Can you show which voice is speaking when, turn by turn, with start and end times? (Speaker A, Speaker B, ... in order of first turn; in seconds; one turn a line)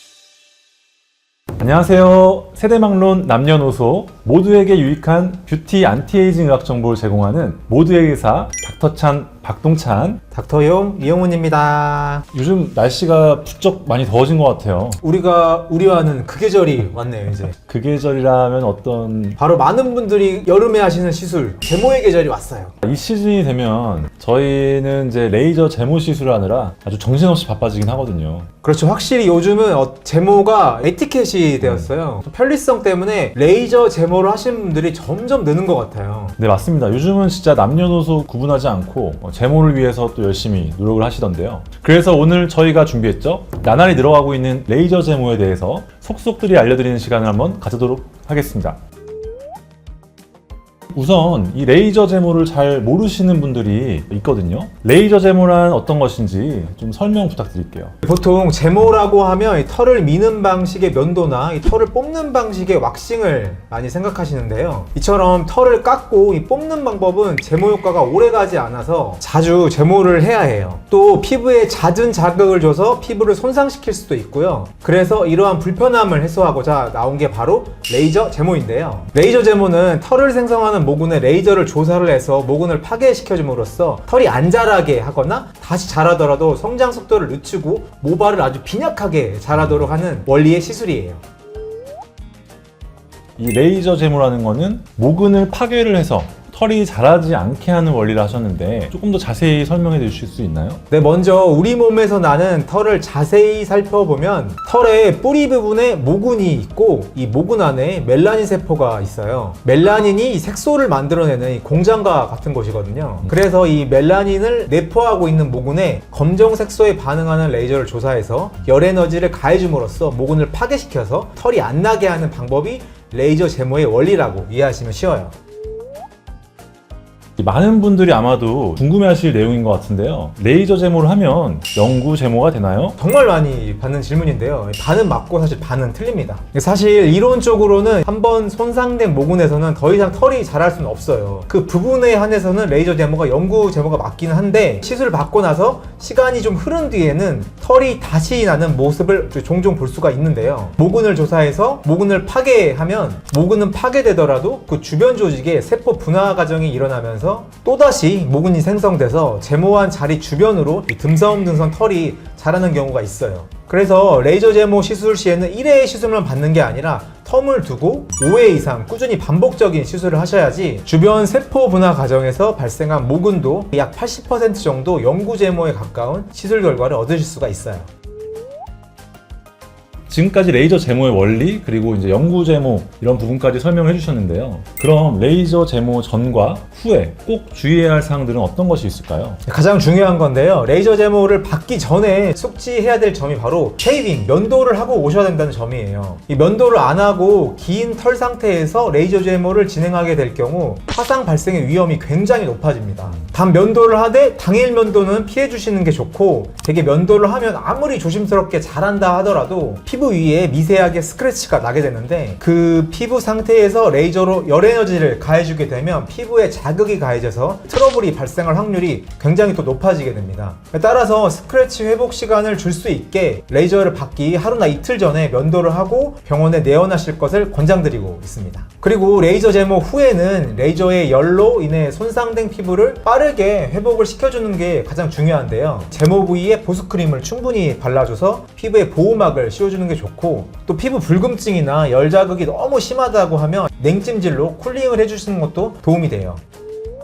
Speaker A: 1.6-10.2
Speaker B: 10.3-12.2
Speaker A: 12.3-15.0
Speaker B: 15.0-17.5
Speaker A: 17.6-19.4
Speaker B: 19.4-22.8
Speaker A: 22.8-28.5
Speaker B: 28.6-36.4
Speaker A: 36.4-48.8
Speaker A: 50.9-58.0
Speaker B: 58.0-91.2
Speaker A: 93.4-100.8
Speaker B: 100.9-125.3
Speaker A: 127.4-133.0
Speaker B: 133.0-177.9
Speaker A: 180.1-189.4
Speaker B: 189.4-246.4